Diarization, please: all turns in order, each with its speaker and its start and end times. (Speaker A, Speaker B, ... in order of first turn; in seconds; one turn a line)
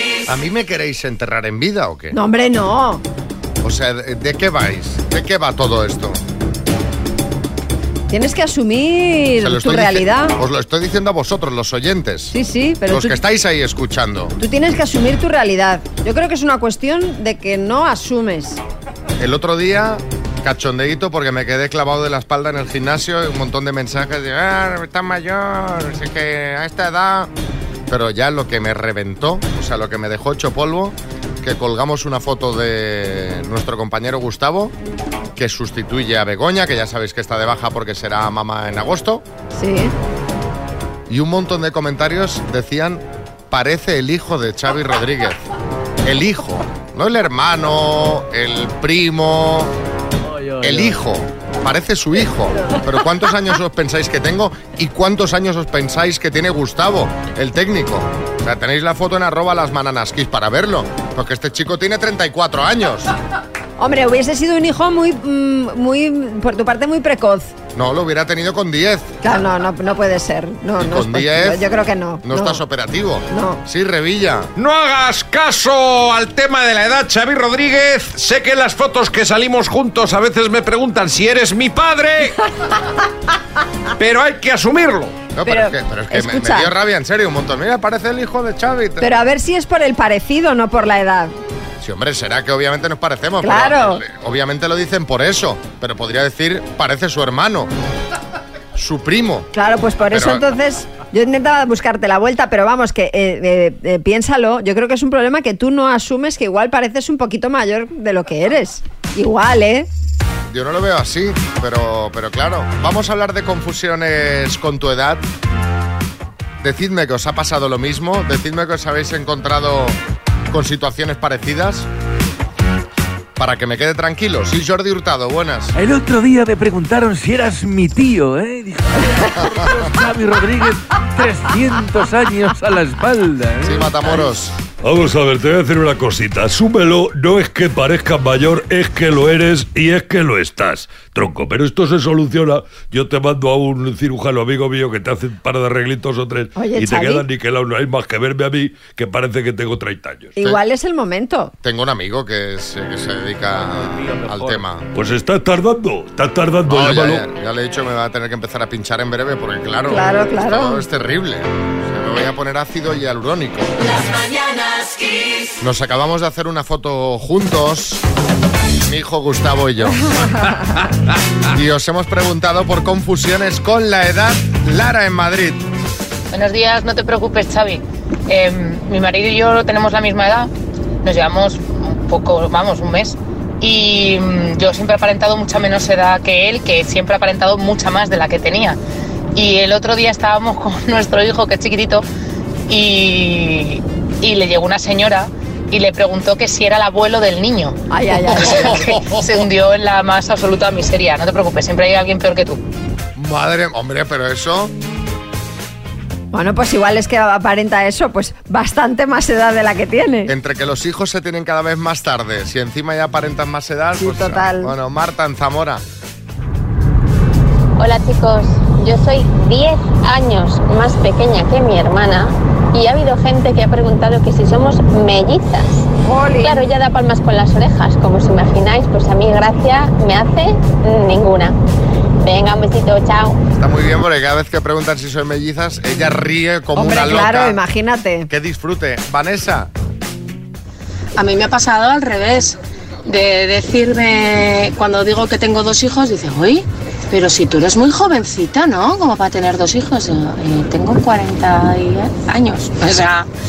Speaker A: 0.3-2.2
Speaker B: 2.1-3.0
Speaker A: 3.6-6.2
Speaker B: 8.1-10.3
Speaker A: 9.4-12.3
Speaker B: 12.3-13.2
Speaker A: 12.9-14.3
Speaker B: 14.4-18.6
Speaker A: 19.2-27.3
Speaker A: 27.9-34.7
Speaker A: 35.4-39.2
Speaker B: 39.5-39.9
Speaker A: 41.1-45.5
Speaker A: 46.0-49.7
Speaker A: 50.6-63.1
Speaker B: 63.8-67.5
Speaker A: 67.8-69.1
Speaker B: 69.2-72.6
Speaker A: 70.8-71.7
Speaker A: 72.2-74.5
Speaker B: 73.3-73.6
Speaker C: 74.6-82.4
Speaker C: 84.0-85.2
Speaker A: 85.3-89.1
Speaker B: 85.5-86.7
Speaker B: 89.0-91.3
Speaker A: 91.8-97.7
Speaker B: 93.4-94.0
Speaker A: 98.8-99.5
Speaker B: 99.5-109.9
Speaker A: 100.1-100.5
Speaker A: 110.5-115.2
Speaker A: 116.6-120.0
Speaker A: 120.5-121.9
Speaker A: 123.4-125.8
Speaker D: 125.8-134.4
Speaker A: 133.6-134.5
Speaker E: 134.8-150.4
Speaker B: 146.6-147.3
Speaker B: 150.4-151.5
Speaker A: 151.6-154.9
Speaker D: 153.6-154.6
Speaker E: 154.9-157.3
Speaker A: 156.7-163.9
Speaker B: 159.9-160.8
Speaker A: 165.6-168.0
Speaker A: 168.8-170.1
Speaker A: 171.5-175.6
Speaker F: 176.3-180.5
Speaker F: 181.0-188.8
Speaker F: 189.3-192.1
Speaker F: 192.7-197.8
Speaker B: 197.9-199.0
Speaker F: 198.5-202.6
Speaker A: 203.2-204.7
Speaker B: 206.3-210.3
Speaker A: 210.3-215.8
Speaker B: 214.0-214.7
Speaker G: 217.8-225.9
Speaker B: 226.0-226.7
Speaker G: 226.4-231.6
Speaker G: 232.2-233.4
Speaker A: 233.5-237.6
Speaker B: 236.8-238.3
Speaker A: 238.3-239.7
Speaker H: 241.2-242.6
Speaker H: 243.1-253.2